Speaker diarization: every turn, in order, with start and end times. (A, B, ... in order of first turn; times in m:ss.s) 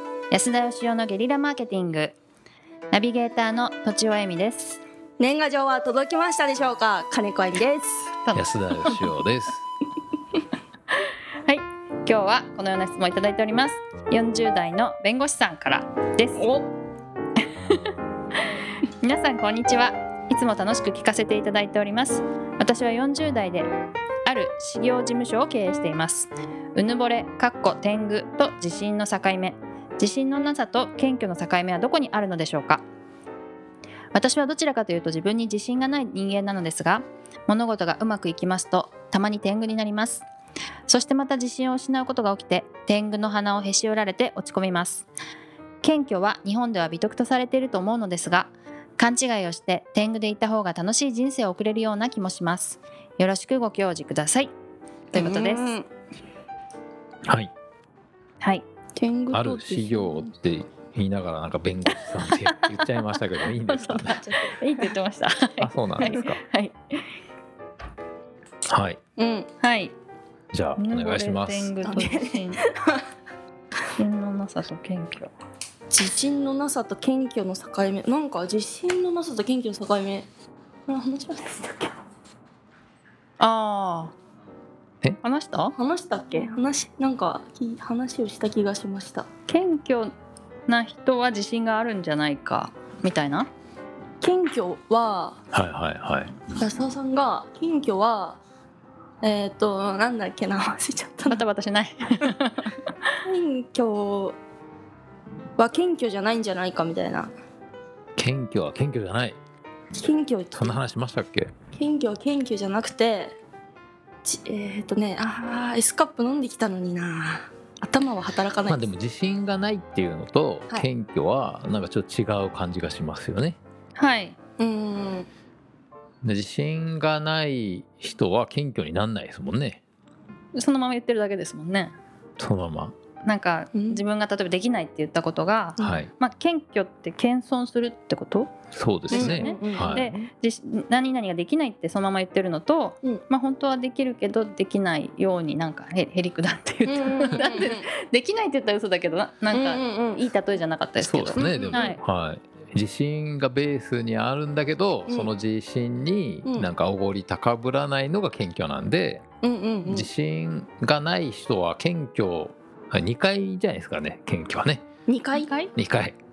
0:00.3-0:02.1 A
0:02.9-0:04.8 A
0:05.2-0:08.1 B
0:08.2-0:08.9 A
0:08.3-0:09.6 C
0:11.4-0:16.5 A
0:16.4-0:16.6 B
0:19.0-0:23.7 A
0:24.2-0:32.8 A
0:34.1-0:40.2 A
0:40.9-0:45.1 A
0:45.8-0:54.5 A
0:55.1-0:55.7 A
0:55.1-0:55.9 B
0:59.0-1:00.3 B
0:59.3-1:04.2 C
1:03.6-1:07.0 A
1:04.3-1:04.9 B
1:05.6-1:06.4 C
1:08.7-1:09.0 C
1:09.2-1:09.5 B
1:09.6-1:09.9 A
1:10.5-1:11.7 C
1:10.8-1:12.6 A
1:11.8-1:13.0 B
1:14.0-1:15.3 A
1:15.9-1:20.2 B
1:20.9-1:22.0 B
1:23.4-1:24.1 A
1:25.2-1:25.7 A
1:25.8-1:29.3 B
1:29.5-1:30.1 A
1:30.7-1:33.5 A
1:34.2-1:35.4 B
1:35.5-1:36.5 C
1:36.6-1:38.4 B
1:39.2-1:41.4 B
1:41.3-1:42.8 A
1:43.2-1:44.4 B
1:45.6-1:47.3 B
1:48.2-1:49.4 C
1:49.9-1:50.8 B
1:50.5-1:51.5 C
1:51.7-1:53.4 B
1:54.2-1:58.8 B
1:58.6-2:03.6 C
2:04.0-2:04.4 A
2:04.6-2:05.3 B
2:06.2-2:09.8 C
2:10.5-2:11.9 A
2:12.4-2:12.9 C
2:13.2-2:18.5 A
2:13.7-2:14.0 B
2:15.8-2:16.1 C
2:18.7-2:20.1 C
2:19.1-2:32.0 A
2:19.1-2:20.2 B
2:26.8-2:27.9 B
2:29.5-2:30.3 B
2:31.0-2:39.2 C
2:31.3-2:31.8 B
2:35.1-2:35.3 B
2:39.4-2:40.1 B
2:39.9-2:44.9 C
2:45.1-2:45.5 B
2:45.3-2:45.7 A
2:45.7-2:46.2 C